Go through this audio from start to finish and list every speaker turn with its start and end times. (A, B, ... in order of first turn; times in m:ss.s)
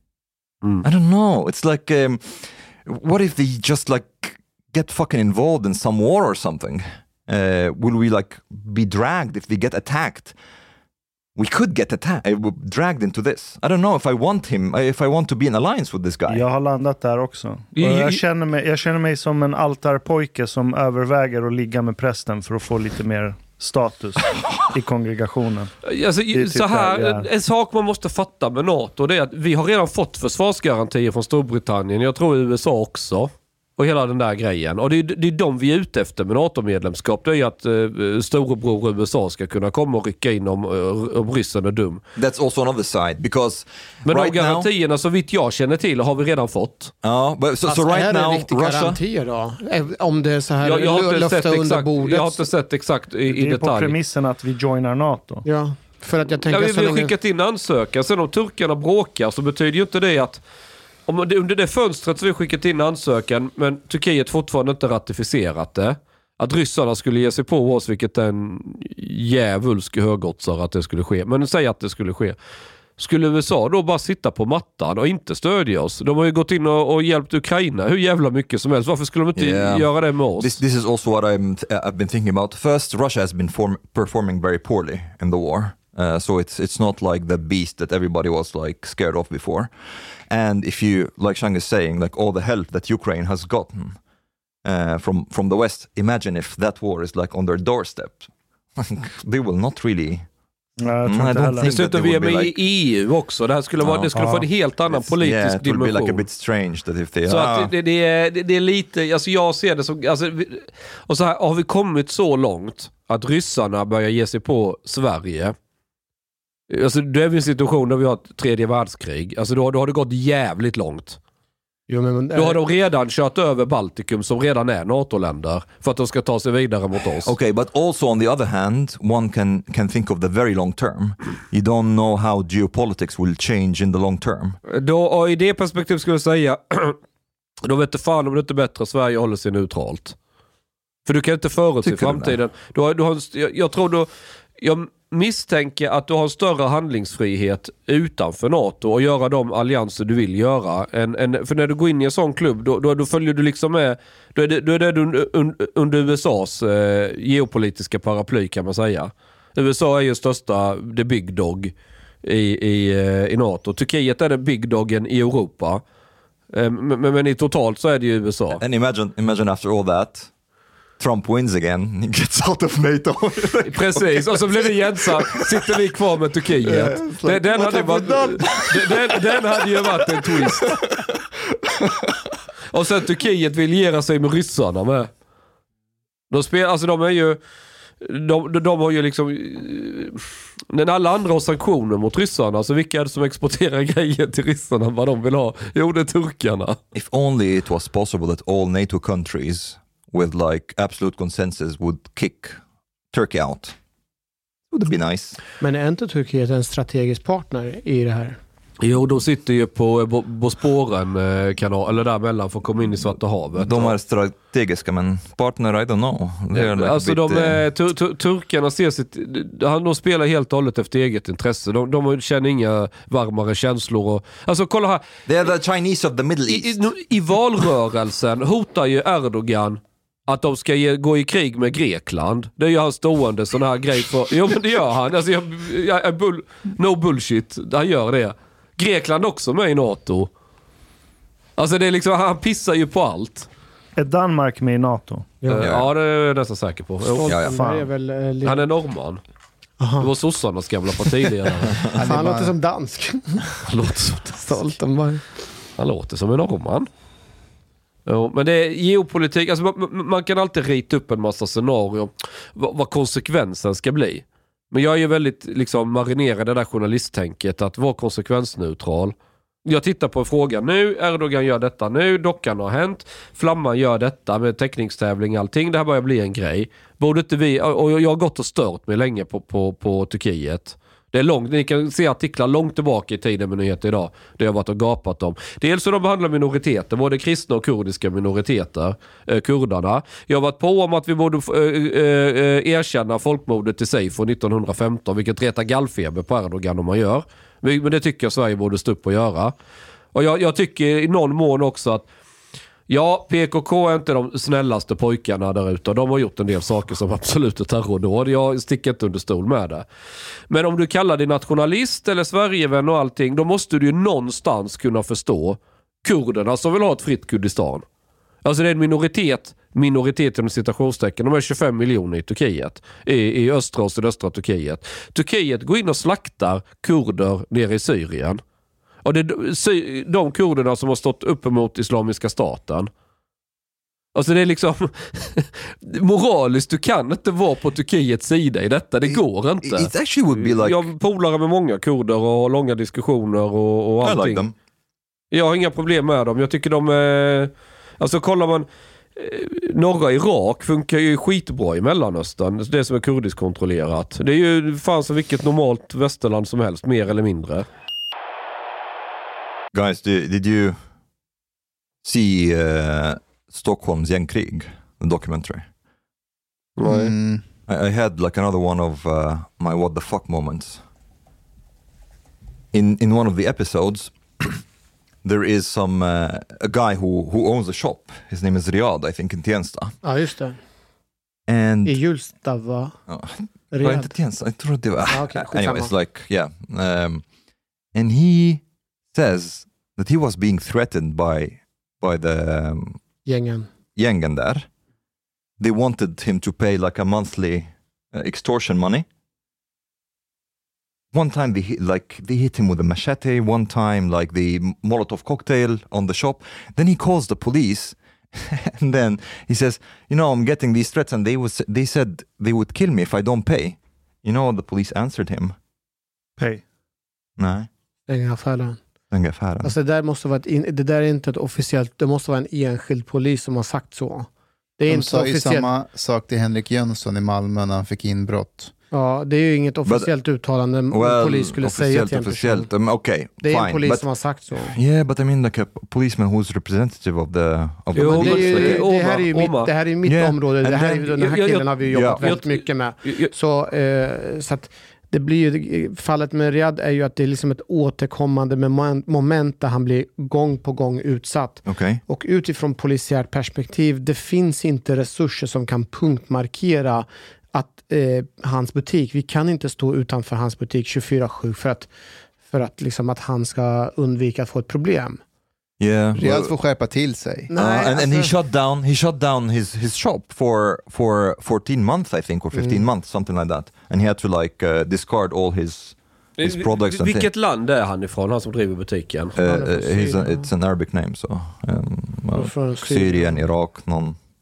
0:00.8-0:10.4 A
0:11.4-0:16.4 A
0:16.3-0:25.7 B
0:17.8-0:18.2 C
0:25.8-0:42.0 C
0:26.3-0:27.3 B
0:42.2-0:44.7 A
0:44.0-0:46.9 C
0:47.0-0:49.0 A
0:47.7-0:52.5 D
0:50.6-0:54.0 C
0:53.3-0:55.5 B
0:55.5-0:57.1 D
0:56.5-1:00.4 C
1:01.1-1:12.4 C
1:13.0-1:20.6 C
1:19.4-1:34.0 A
1:34.6-1:40.3 A
1:40.8-1:41.8 B
1:41.0-1:42.6 A
1:41.6-1:46.2 C
1:43.8-1:47.7 A
1:44.2-1:44.4 B
1:47.3-1:55.6 C
1:56.7-2:01.2 C
2:01.9-2:02.6 D
2:02.4-2:07.3 C
2:07.2-2:14.6 A
2:14.7-2:17.0 C
2:17.6-2:20.2 C
2:21.1-2:24.1 C
2:21.8-2:22.4 A
2:24.6-2:45.8 C
2:46.5-2:48.6 C
2:48.6-2:50.3 A
2:51.0-2:54.8 A
2:53.7-3:00.7 C
2:56.8-2:58.6 A
2:57.6-2:58.5 D
3:00.7-3:01.0 A
3:02.7-3:05.1 C
3:06.3-3:07.4 C
3:08.0-3:16.8 C
3:16.9-3:22.6 A
3:23.1-3:23.8 A
3:24.7-3:25.4 A
3:25.6-3:28.4 D
3:28.8-3:34.0 C
3:33.5-3:37.6 A
3:36.5-3:45.0 C
3:45.3-3:46.9 A
3:46.5-4:00.3 C
4:01.6-4:03.5 C
4:04.0-4:05.3 B
4:05.4-4:05.7 D
4:05.5-4:07.4 C
4:05.6-4:05.9 A
4:07.1-4:08.7 D
4:07.3-4:07.6 A
4:07.5-4:07.9 B
4:08.4-4:09.2 C
4:09.8-4:10.1 D
4:10.0-4:11.8 C
4:12.0-4:12.6 E
4:12.0-4:13.6 D
4:13.7-4:14.4 C
4:14.3-4:15.2 D
4:15.8-4:16.9 C
4:18.1-4:59.5 C
5:00.1-5:02.1 C
5:02.9-5:09.9 C
5:10.5-5:17.8 C
5:18.4-5:28.4 C
5:29.0-5:32.9 C
5:34.2-5:44.5 C
5:39.1-5:40.9 A
5:44.0-5:44.5 A
5:45.3-5:57.7 C
5:59.7-6:00.8 A
6:02.0-6:05.7 A
6:06.8-6:07.1 C
6:06.9-6:07.4 E
6:07.7-6:10.8 A
6:12.7-6:14.6 A
6:15.2-6:20.0 A
6:20.0-6:20.6 D
6:21.5-6:22.0 A
6:21.9-6:23.0 D
6:23.1-6:27.3 A
6:23.7-6:24.1 D
6:25.1-6:25.9 D
6:27.9-6:33.0 A
6:33.3-6:33.7 D
6:34.0-6:34.7 A
6:35.6-6:39.1 A
6:41.1-6:55.6 A
6:56.4-6:56.6 B
6:57.4-6:57.7 A
6:58.1-6:58.8 D
6:59.1-6:59.7 A
6:59.6-7:05.7 D
7:04.9-7:08.7 E
7:08.9-7:12.7 D
7:09.8-7:10.1 A
7:10.9-7:14.1 A
7:13.4-7:14.8 D
7:14.6-7:18.9 A
7:18.0-7:19.7 C
7:18.0-7:41.9 D
7:20.0-7:21.2 A
7:21.2-7:23.3 C
7:21.8-7:22.4 A
7:31.6-7:32.0 A
7:42.4-7:45.2 D
7:45.8-7:46.5 A
7:46.2-7:47.5 E
7:47.5-7:48.3 D
7:47.6-7:57.3 A
7:52.5-7:52.9 D
7:56.4-7:59.4 C
7:59.4-8:04.2 A
7:59.4-8:00.5 D
8:02.3-8:03.4 D